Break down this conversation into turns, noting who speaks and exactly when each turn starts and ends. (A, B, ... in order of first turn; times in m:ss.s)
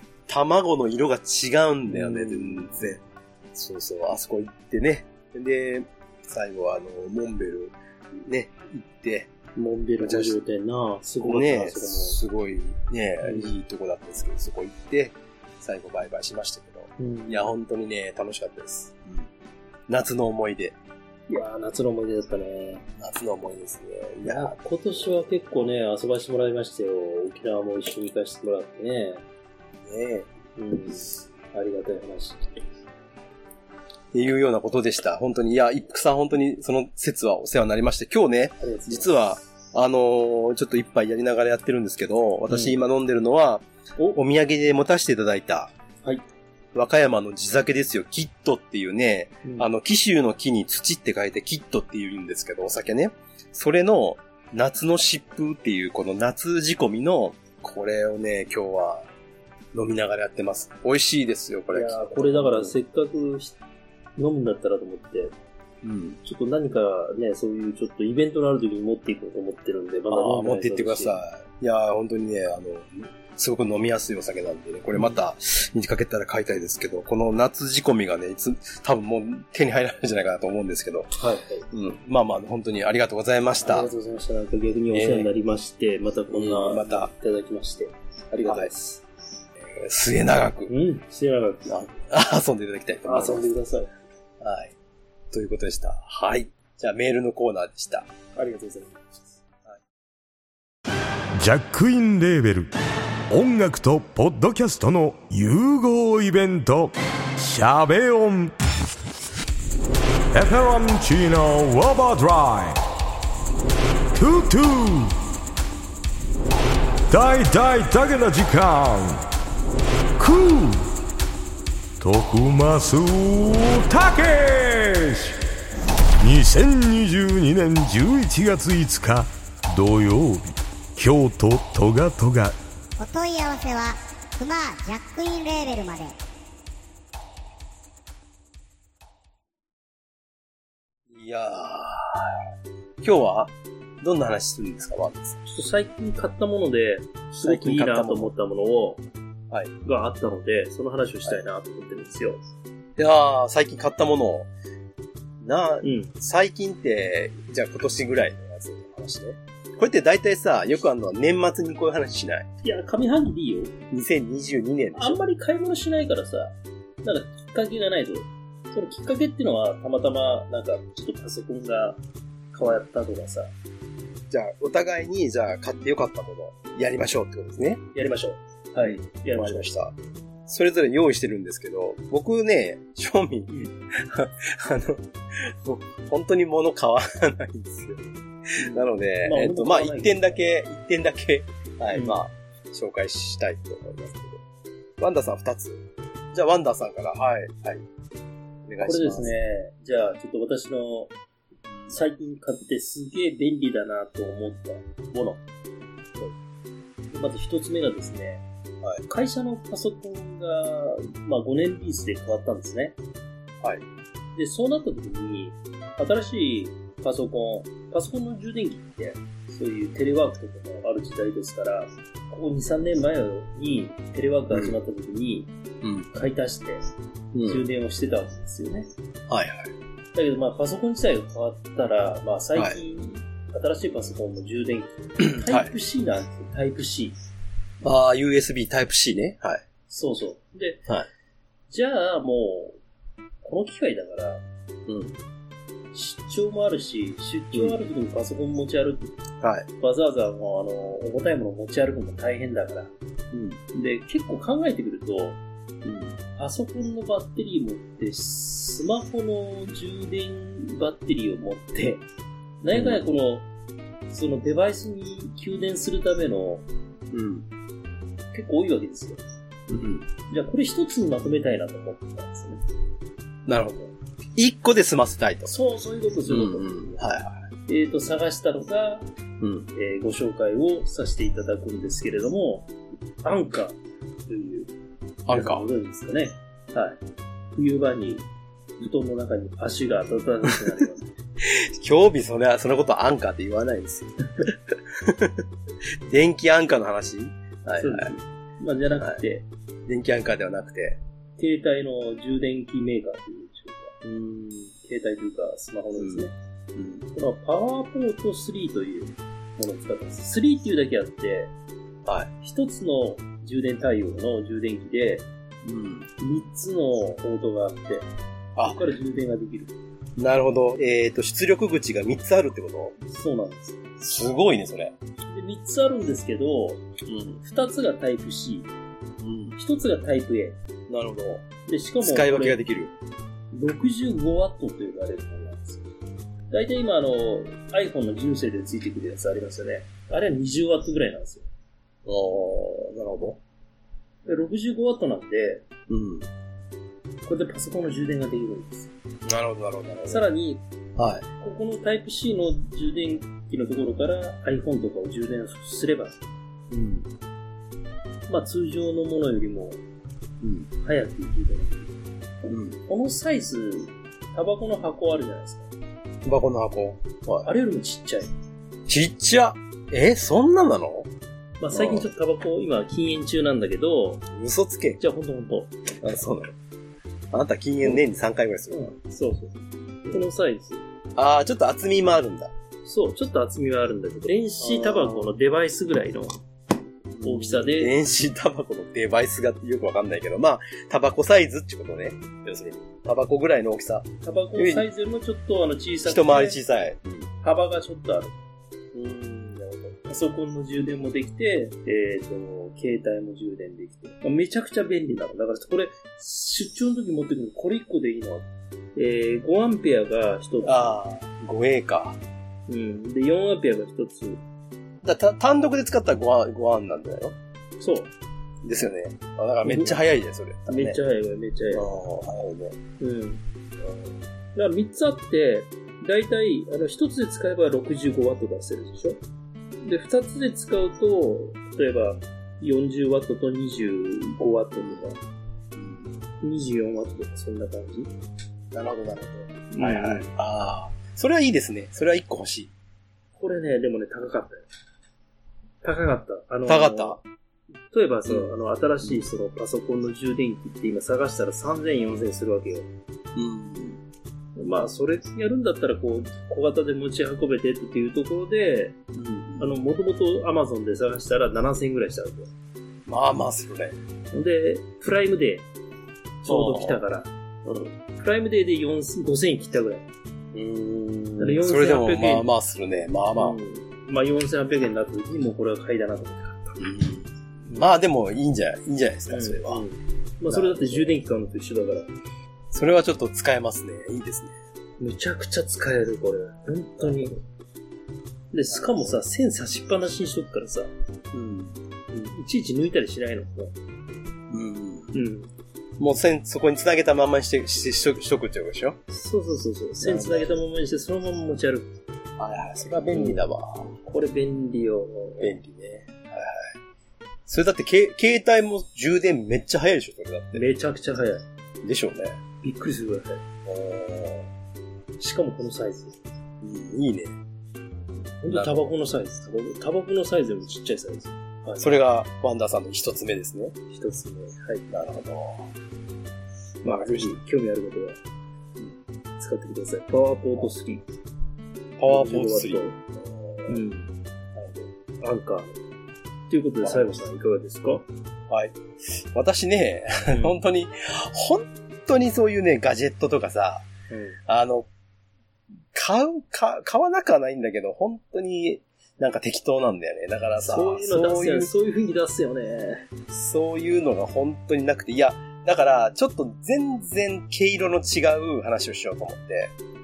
0:00.3-0:03.0 A
0:01.9-0:03.0 B
0:03.5-0:09.3 A
0:09.5-0:12.2 B
0:10.0-0:10.4 A
0:11.2-0:19.3 A
0:13.2-0:13.5 B
0:17.0-0:17.5 B
0:19.9-0:20.8 A
0:21.3-0:22.8 B
0:23.0-0:24.6 A
0:24.2-0:29.2 B
0:29.8-0:30.3 A
0:30.6-0:32.4 B
0:34.1-0:45.7 A
0:38.6-0:39.1 B
0:42.5-0:42.8 B
0:46.7-0:59.1 A
0:49.4-0:49.7 B
0:59.7-1:02.8 A
1:01.7-1:03.6 B
1:04.2-1:05.3 B
1:05.8-1:06.2 A
1:06.2-1:11.2 B
1:10.1-1:21.1 A
1:21.2-1:21.7 B
1:21.7-1:23.9 A
1:23.6-1:29.0 B
1:24.9-1:25.3 A
1:26.3-1:27.1 A
1:28.4-1:28.7 A
1:29.6-1:30.7 A
1:30.7-1:31.7 B
1:31.6-1:33.5 A
1:33.0-1:33.9 B
1:34.4-1:34.7 A
1:35.3-1:38.1 A
1:38.3-1:39.2 B
1:41.4-1:42.7 C
1:43.3-1:48.5 C
1:50.3-1:52.8 C
1:54.1-1:55.2 C
1:57.1-1:59.2 C
2:00.2-2:00.9 C
2:02.0-2:05.4 C
2:06.2-2:12.6 C
2:13.0-2:16.2 D
2:21.1-2:22.4 A
2:23.0-2:25.4 A
2:25.5-2:29.0 B
2:27.4-2:28.3 A
2:29.8-2:32.4 B
2:33.0-2:34.5 A
2:35.4-2:42.5 A
2:35.8-2:36.1 B
2:42.6-2:43.7 B
2:43.9-2:45.2 A
2:45.0-2:52.0 B
2:52.5-2:53.5 B
2:54.3-2:57.8 A
2:57.9-2:59.7 B
2:58.8-2:59.9 A
3:00.5-3:14.4 A
3:08.6-3:10.4 B
3:11.9-3:12.2 B
3:15.0-3:17.8 A
3:18.6-3:19.3 A
3:18.8-3:21.1 B
3:21.7-3:22.0 A
3:21.9-3:25.4 B
3:27.1-3:28.4 B
3:29.1-3:33.0 B
3:34.4-3:45.5 B
3:45.8-3:46.1 A
3:46.1-3:46.8 B
3:47.3-3:47.6 A
3:47.4-3:48.9 B
3:49.3-3:49.7 A
3:50.1-3:57.2 B
3:55.2-3:55.7 A
3:57.8-3:59.6 A
3:59.9-4:00.8 B
4:01.7-4:02.8 B
4:03.4-4:04.4 B
4:04.9-4:05.2 A
4:05.9-4:09.1 B
4:09.4-4:09.7 A
4:09.8-4:12.9 B
4:13.3-4:13.6 A
4:13.7-4:15.4 B
4:15.8-4:16.2 A
4:16.4-4:22.0 B
4:22.6-4:23.5 B
4:22.7-4:23.0 A
4:24.1-4:26.6 B
4:27.1-4:27.5 A
4:28.3-4:29.2 B
4:29.7-4:30.1 A
4:30.3-4:32.6 B
4:33.4-4:35.5 A
4:35.4-4:37.0 B
4:36.3-4:37.4 A
4:37.7-4:39.1 B
4:39.4-4:39.7 A
4:39.7-4:42.7 B
4:43.2-4:44.7 B
4:45.2-4:45.6 A
4:45.3-4:47.0 B
4:47.5-4:48.3 B
4:48.8-4:51.1 B
4:51.4-4:55.4 A
4:56.1-4:58.1 A
4:57.8-4:59.5 B
4:59.8-5:01.0 A
5:01.4-5:04.0 B
5:04.0-5:04.7 A
5:04.7-5:06.3 B
5:06.0-5:07.0 A
5:07.1-5:11.5 B
5:12.0-5:12.3 A
5:12.4-5:15.3 B
5:15.6-5:16.1 A
5:16.2-5:18.1 B
5:18.6-5:19.7 B
5:20.2-5:23.0 A
5:23.0-5:23.8 B
5:24.0-5:24.9 A
5:25.3-5:26.8 B
5:27.0-5:27.4 A
5:27.4-5:28.7 B
5:29.2-5:29.6 A
5:29.6-5:30.6 B
5:30.9-5:31.4 A
5:31.7-5:32.6 B
5:32.0-5:32.9 A
5:33.5-5:35.8 B
5:36.5-5:41.4 B
5:42.0-5:43.4 A
5:44.2-5:45.6 B
5:45.9-5:46.3 A
5:47.2-5:48.9 B
5:49.2-5:50.2 A
5:50.0-5:50.6 B
5:51.0-5:51.3 A
5:51.4-5:56.2 B
5:56.7-5:57.1 A
5:58.3-5:59.8 B
6:00.4-6:00.7 A
6:00.8-6:01.9 B
6:02.4-6:05.7 B
6:02.5-6:02.8 A
6:06.2-6:07.5 A
6:07.4-6:08.3 B
6:08.9-6:11.1 A
6:11.6-6:14.2 B
6:11.7-6:12.1 A
6:14.3-6:15.0 A
6:15.0-6:15.8 B
6:16.0-6:16.5 A
6:17.3-6:18.9 A
6:18.7-6:20.8 B
6:21.1-6:22.5 A
6:22.8-6:26.4 B
6:24.6-6:25.3 A
6:27.1-6:34.9 A
6:27.2-6:27.9 B
6:34.2-6:36.6 B
6:36.0-6:37.3 A
6:37.4-6:38.3 B
6:38.9-6:40.0 A
6:40.0-6:51.0 B
6:50.6-6:52.2 A
6:52.7-6:54.4 B
6:55.0-6:57.4 A
6:57.8-6:58.1 B
6:58.6-7:01.0 A
6:59.6-7:00.0 B
7:00.7-7:01.8 B
7:01.7-7:02.8 A
7:03.0-7:03.4 B
7:04.5-7:09.2 B
7:09.8-7:15.2 B
7:15.7-7:16.1 A
7:16.4-7:18.1 B
7:18.7-7:22.7 A
7:19.7-7:20.3 B
7:23.4-7:24.6 B
7:25.8-7:27.2 B
7:26.7-7:27.2 A
7:27.9-7:32.9 B
7:28.3-7:28.5 A
7:33.3-7:34.0 A
7:34.6-7:39.0 B
7:39.1-7:39.7 A
7:39.6-7:42.5 B
7:43.0-7:44.0 A
7:44.3-7:45.7 B
7:46.4-7:47.0 A
7:46.4-7:47.3 B
7:47.6-7:47.9 A
7:48.1-7:50.0 B
7:50.5-7:53.6 A
7:51.4-7:52.5 B
7:53.4-7:56.8 B
7:56.8-7:59.8 A
7:59.3-8:02.1 B
8:00.5-8:01.2 A
8:02.7-8:04.5 A
8:05.0-8:07.4 B
8:07.0-8:07.2 A
8:08.5-8:10.9 B
8:08.7-8:09.2 A
8:11.3-8:11.8 A
8:12.1-8:13.7 B
8:14.5-8:15.1 A
8:15.1-8:15.5 B
8:16.0-8:19.0 A
8:19.1-8:21.9 B
8:20.0-8:20.6 A
8:22.4-8:23.9 A
8:23.1-8:25.6 B
8:25.4-8:26.7 A
8:27.5-8:30.6 A
8:30.5-8:31.4 B
8:31.8-8:32.4 A
8:32.6-8:33.4 B
8:33.6-8:34.5 A
8:35.2-8:36.2 B
8:36.6-8:37.3 A
8:38.4-8:41.8 B
8:38.5-8:38.8 A
8:41.8-8:43.8 A
8:43.9-8:44.9 B
8:44.9-8:45.7 A
8:46.8-8:47.4 A
8:46.8-8:48.2 B
8:49.4-8:51.0 B
8:52.0-8:53.8 A
8:52.0-8:53.0 B
8:53.7-8:54.1 B
8:54.5-8:54.9 A
8:55.2-8:55.8 B
8:56.5-8:58.0 B
8:56.8-8:57.2 A
8:58.5-9:03.8 A
9:00.3-9:00.6 B
9:04.1-9:04.4 B
9:04.4-9:04.9 A
9:05.9-9:11.7 A
9:10.6-9:13.0 B
9:13.3-9:19.7 A